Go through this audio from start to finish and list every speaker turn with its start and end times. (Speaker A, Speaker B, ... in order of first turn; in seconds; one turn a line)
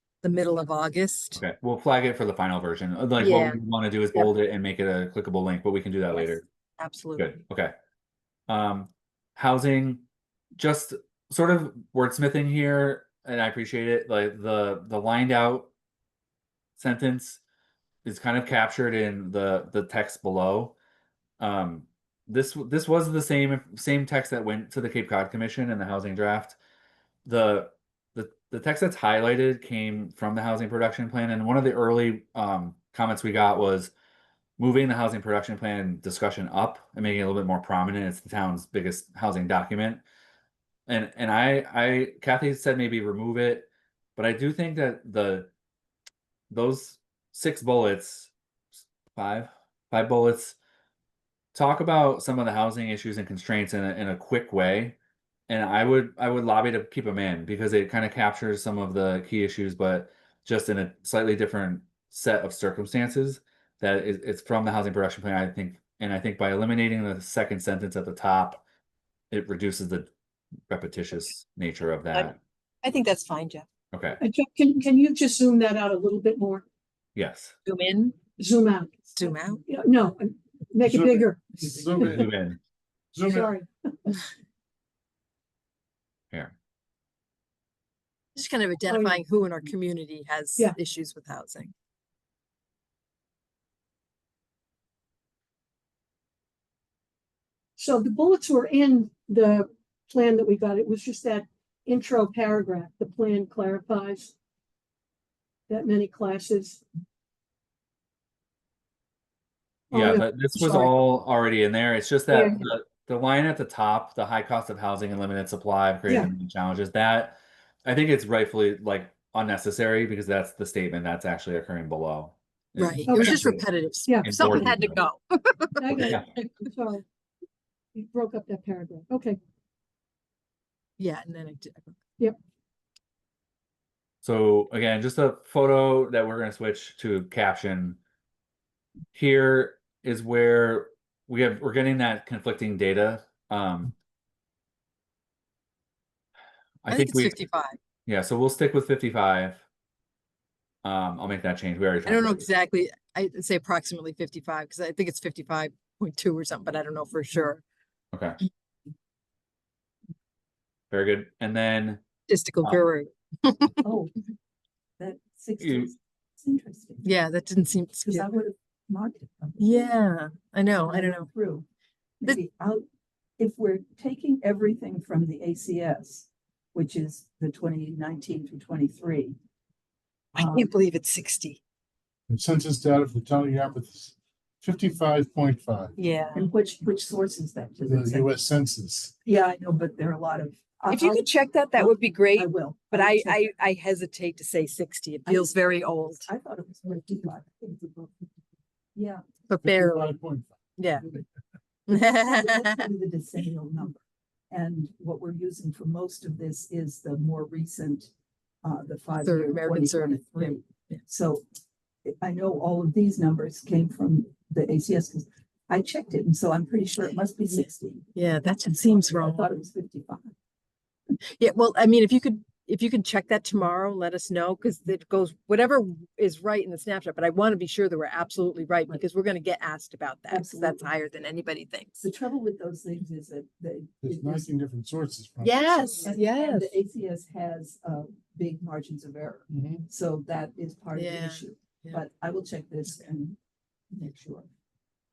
Speaker A: 0.2-1.4
Speaker B: 1.4-6.4
Speaker A: 3.2-3.6
Speaker A: 6.1-7.4
Speaker B: 7.2-7.7
Speaker B: 8.5-10.0
Speaker B: 10.6-15.7
Speaker B: 16.8-17.4
Speaker B: 18.0-20.8
Speaker B: 21.4-26.6
Speaker B: 27.2-33.9
Speaker B: 34.6-40.0
Speaker B: 40.9-45.5
Speaker B: 46.5-48.3
Speaker B: 49.1-50.6
Speaker B: 51.5-55.0
Speaker B: 55.5-68.6
Speaker B: 69.3-70.1
Speaker B: 70.7-72.4
Speaker A: 72.8-73.7
Speaker B: 73.9-74.2
Speaker C: 74.2-76.6
Speaker B: 77.2-77.5
Speaker A: 77.7-78.2
Speaker C: 78.4-82.1
Speaker A: 79.2-79.6
Speaker D: 80.8-82.4
Speaker B: 82.1-82.6
Speaker D: 83.1-83.5
Speaker C: 83.3-84.2
Speaker A: 88.3-91.7
Speaker C: 88.9-89.2
Speaker C: 97.8-104.3
Speaker C: 105.7-106.8
Speaker C: 109.9-110.9
Speaker B: 109.9-123.7
Speaker C: 112.3-112.7
Speaker C: 116.0-116.3
Speaker A: 122.8-126.6
Speaker C: 123.1-123.4
Speaker C: 124.1-124.4
Speaker B: 124.2-125.0
Speaker C: 125.8-127.0
Speaker B: 126.0-126.2
Speaker C: 127.9-129.4
Speaker A: 131.0-131.9
Speaker B: 134.2-138.0
Speaker B: 139.1-143.9
Speaker B: 146.8-147.4
Speaker A: 146.9-147.8
Speaker B: 148.1-149.6
Speaker B: 150.8-152.5
Speaker A: 152.1-157.6
Speaker B: 158.1-158.4
Speaker B: 160.9-162.0
Speaker A: 162.3-163.8
Speaker E: 163.8-164.1
Speaker E: 165.0-167.1
Speaker B: 165.6-165.9
Speaker A: 167.0-168.2
Speaker E: 168.0-169.9
Speaker A: 169.6-171.3
Speaker E: 170.8-171.7
Speaker E: 172.2-172.8
Speaker E: 173.4-179.3
Speaker A: 180.3-181.6
Speaker E: 180.3-180.7
Speaker D: 182.3-185.9
Speaker A: 186.0-186.4
Speaker E: 186.3-188.3
Speaker D: 187.8-189.1
Speaker E: 189.2-193.5
Speaker A: 190.9-196.3
Speaker E: 195.2-195.6
Speaker E: 196.1-198.1
Speaker E: 198.9-199.2
Speaker A: 199.5-200.1
Speaker D: 199.6-201.2
Speaker A: 200.8-201.0
Speaker A: 201.9-202.9
Speaker E: 201.9-208.1
Speaker E: 208.6-211.4
Speaker A: 209.2-211.0
Speaker E: 212.0-218.1
Speaker A: 217.0-219.5
Speaker E: 218.7-220.3
Speaker A: 221.4-232.0
Speaker E: 230.3-230.9
Speaker E: 232.0-234.5
Speaker D: 234.0-235.9
Speaker A: 235.4-236.8
Speaker E: 236.0-243.4
Speaker D: 239.5-239.8
Speaker A: 240.9-242.0
Speaker E: 243.9-244.5